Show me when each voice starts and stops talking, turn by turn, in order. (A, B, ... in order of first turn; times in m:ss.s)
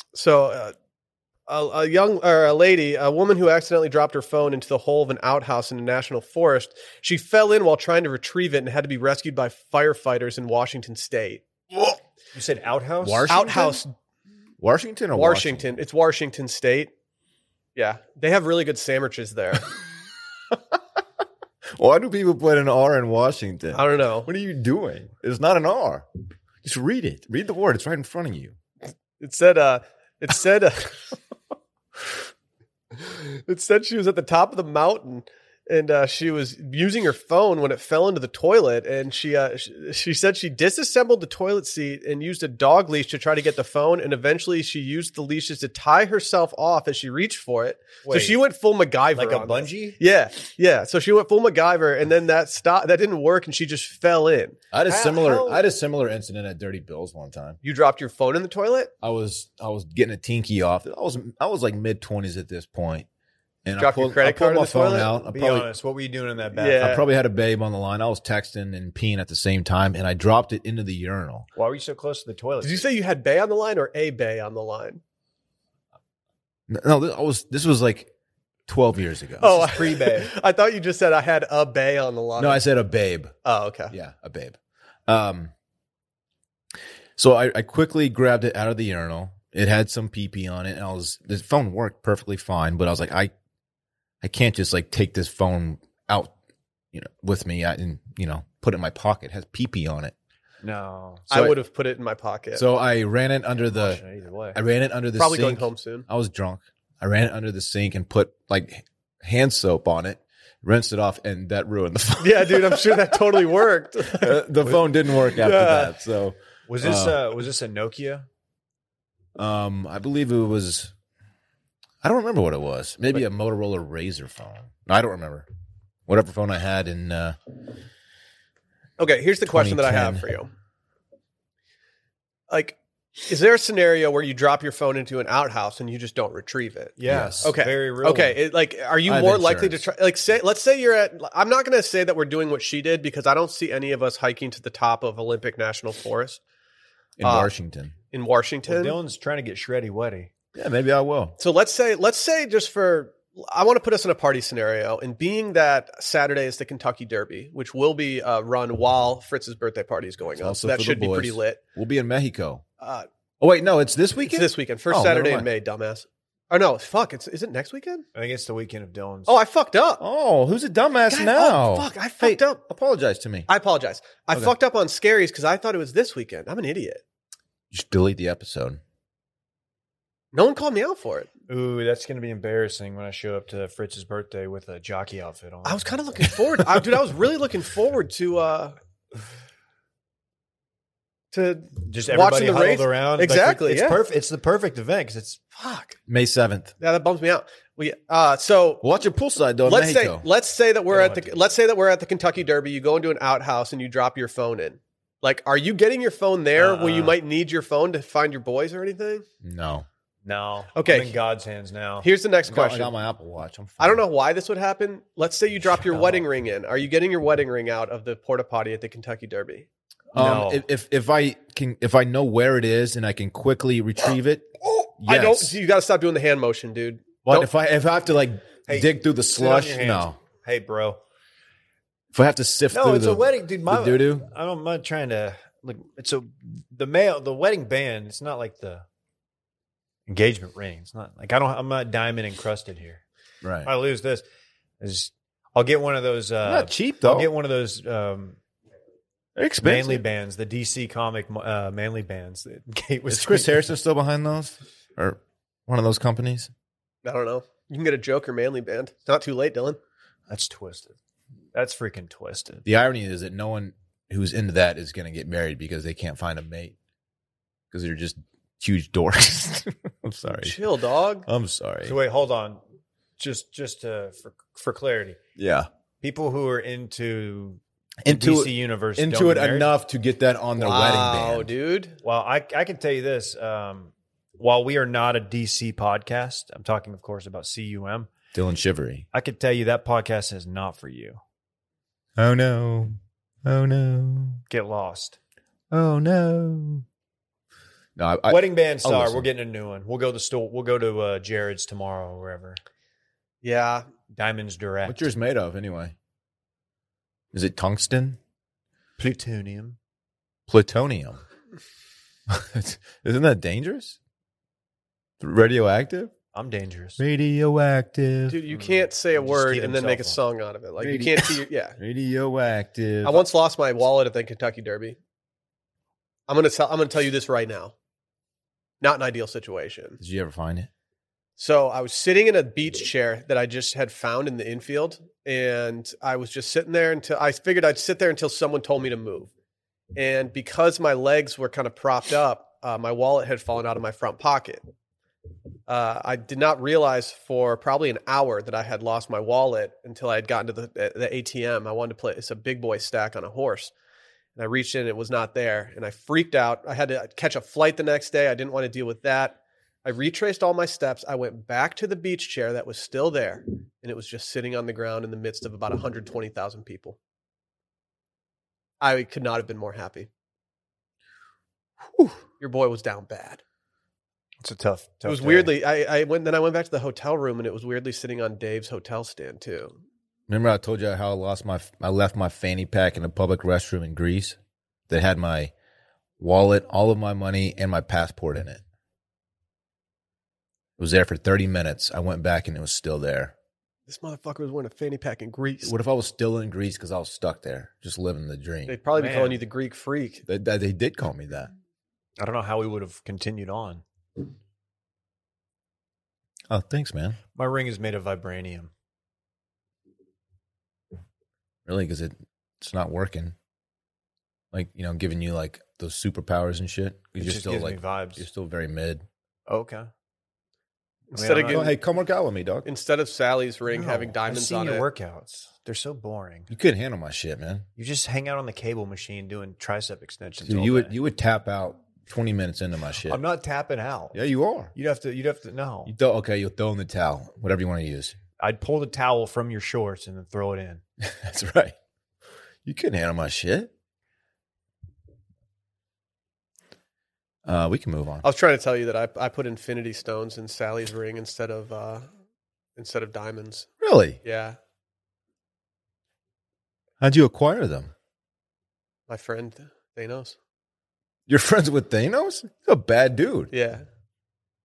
0:00.1-0:00.7 A
0:01.5-0:12.0 A
0:12.3-0:13.3 B
0:13.0-0:13.8 C
0:13.3-0:13.9 A
0:14.6-0:15.7 C
0:15.1-0:16.9 A
0:17.8-0:19.7 A
0:21.7-0:26.0 C
0:23.7-0:24.3 A
0:26.6-0:28.6 C
0:29.2-0:31.1 A
0:32.9-0:54.6 A
0:48.0-0:48.4 B
0:49.1-0:50.0 B
0:54.7-0:57.6 C
0:54.9-0:55.7 B
0:57.6-0:58.9 A
0:59.0-1:03.1 C
1:03.6-1:05.7 C
1:03.8-1:05.1 A
1:05.1-1:07.0 B
1:06.6-1:07.0 A
1:06.8-1:11.5 C
1:11.6-1:12.9 B
1:12.6-1:15.0 A
1:16.7-1:18.1 C
1:18.7-1:19.6 C
1:19.4-1:20.3 B
1:19.4-1:22.7 A
1:22.4-1:23.4 C
1:23.4-1:23.9 A
1:23.9-1:25.5 C
1:27.2-1:33.3 C
1:34.2-1:36.3 C
1:36.9-1:40.1 C
1:40.6-1:41.3 B
1:41.3-1:42.7 A
1:41.3-1:41.6 C
1:42.6-1:44.0 C
1:43.7-1:44.6 B
1:44.5-1:53.3 C
1:45.2-1:46.0 A
1:52.2-1:54.5 A
1:54.1-1:57.4 C
1:55.3-1:55.9 A
1:56.7-1:58.3 B
1:59.4-2:00.9 C
2:02.0-2:05.5 C
2:06.1-2:07.4 C
2:09.0-2:10.5 A
2:09.4-2:10.3 C
2:12.5-2:26.4 A
2:17.0-2:18.4 B
2:17.0-2:17.5 C
2:19.0-2:19.9 C
2:27.2-2:28.0 C
2:27.2-2:27.5 A
2:28.1-2:29.0 A
2:28.7-2:30.3 B
2:30.6-2:31.4 C
2:31.4-2:41.6 A
2:40.4-2:42.6 C
2:42.8-2:43.1 A
2:43.4-2:45.5 C
2:44.3-2:48.0 A
2:48.1-2:49.3 B
2:49.3-2:50.0 A
2:50.0-2:53.5 C
2:51.1-2:52.6 A
2:53.5-2:57.0 A
2:57.7-2:58.8 C
3:00.3-3:01.3 A
3:01.5-3:06.0 B
3:05.6-3:08.8 A
3:11.3-3:14.0 A
3:11.8-3:15.4 B
3:15.6-3:16.0 A
3:16.1-3:16.7 C
3:16.8-3:18.8 A
3:18.8-3:20.3 C
3:19.7-3:29.2 A
3:20.9-3:21.4 B
3:26.6-3:27.2 B
3:29.4-3:29.9 C
3:30.2-3:32.1 B
3:30.7-3:31.2 A
3:32.0-3:32.9 A
3:32.4-3:34.0 C
3:33.8-3:39.7 A
3:35.9-3:36.2 B
3:40.1-3:45.6 C
3:40.1-3:40.6 B
3:45.0-3:47.5 A
3:47.2-3:50.2 C
3:48.7-3:51.0 B
3:52.1-3:54.3 C
3:52.7-3:58.8 B
4:00.1-4:03.0 B
4:03.4-4:03.7 C
4:03.6-4:04.2 B
4:04.8-4:08.4 B
4:06.4-4:07.3 C
4:09.4-4:10.0 C
4:09.6-4:13.6 B
4:13.1-4:16.5 C
4:17.0-4:19.8 A
4:20.3-4:21.0 B
4:21.5-4:22.6 B
4:22.6-4:26.7 C
4:27.7-4:30.6 C
4:30.4-4:31.3 A
4:31.3-4:32.0 C
4:31.8-4:32.6 B
4:33.2-4:35.2 B
4:35.4-4:35.7 C
4:36.0-4:39.7 B
4:38.0-4:41.5 C
4:40.6-4:42.0 A
4:42.0-4:48.1 B
4:48.3-4:49.1 C
4:49.1-4:51.2 B
4:52.2-4:54.4 C
4:54.5-4:55.2 B
4:55.7-4:56.8 C
4:58.0-4:59.3 C
4:58.3-5:02.6 B
5:03.4-5:03.9 A
5:04.1-5:05.1 B
5:04.8-5:06.0 C
5:07.3-5:08.2 C
5:09.0-5:09.8 B
5:10.5-5:11.2 C
5:12.3-5:14.0 C
5:15.2-5:16.1 C
5:16.3-5:17.0 B
5:17.0-5:18.4 C
5:18.3-5:21.8 A
5:18.5-5:20.2 B
5:20.8-5:23.3 C
5:23.0-5:25.0 A
5:26.3-5:27.7 A
5:28.8-5:30.0 A
5:30.0-5:30.7 C
5:31.4-5:39.3 A
5:40.0-5:44.6 A
5:45.7-5:53.7 A
5:54.4-6:07.0 A
6:08.8-6:10.1 A
6:12.4-6:13.4 A
6:14.4-6:15.5 B
6:15.0-6:19.8 A
6:20.3-6:24.4 C
6:24.9-6:25.5 C
6:26.2-6:28.6 C
6:30.8-6:33.3 C
6:33.9-6:35.7 A
6:35.6-6:38.8 C
6:38.7-6:40.2 A
6:38.9-6:39.4 B
6:40.3-6:41.5 C
6:42.2-6:43.8 B
6:46.5-6:47.2 C
6:47.4-6:48.7 B
6:51.7-6:53.4 C
6:54.5-6:59.0 C
6:57.2-6:58.2 B
6:59.5-6:59.9 B
7:01.1-7:01.7 A
7:01.1-7:01.7 B
7:01.5-7:02.7 C
7:02.6-7:04.8 A
7:03.7-7:06.5 B
7:06.5-7:07.6 C
7:07.8-7:10.9 B
7:10.4-7:13.2 C
7:13.1-7:14.2 B
7:14.1-7:14.7 C
7:14.7-7:15.9 B
7:15.9-7:18.2 C
7:18.4-7:20.8 B
7:21.0-7:21.8 C
7:22.6-7:23.7 C
7:27.4-7:28.2 C
7:28.2-7:32.1 A
7:32.8-7:33.7 A
7:33.8-7:34.2 C
7:34.2-7:34.6 A
7:37.0-7:37.9 C
7:39.1-7:40.4 A
7:41.3-7:43.5 C
7:43.5-7:43.8 A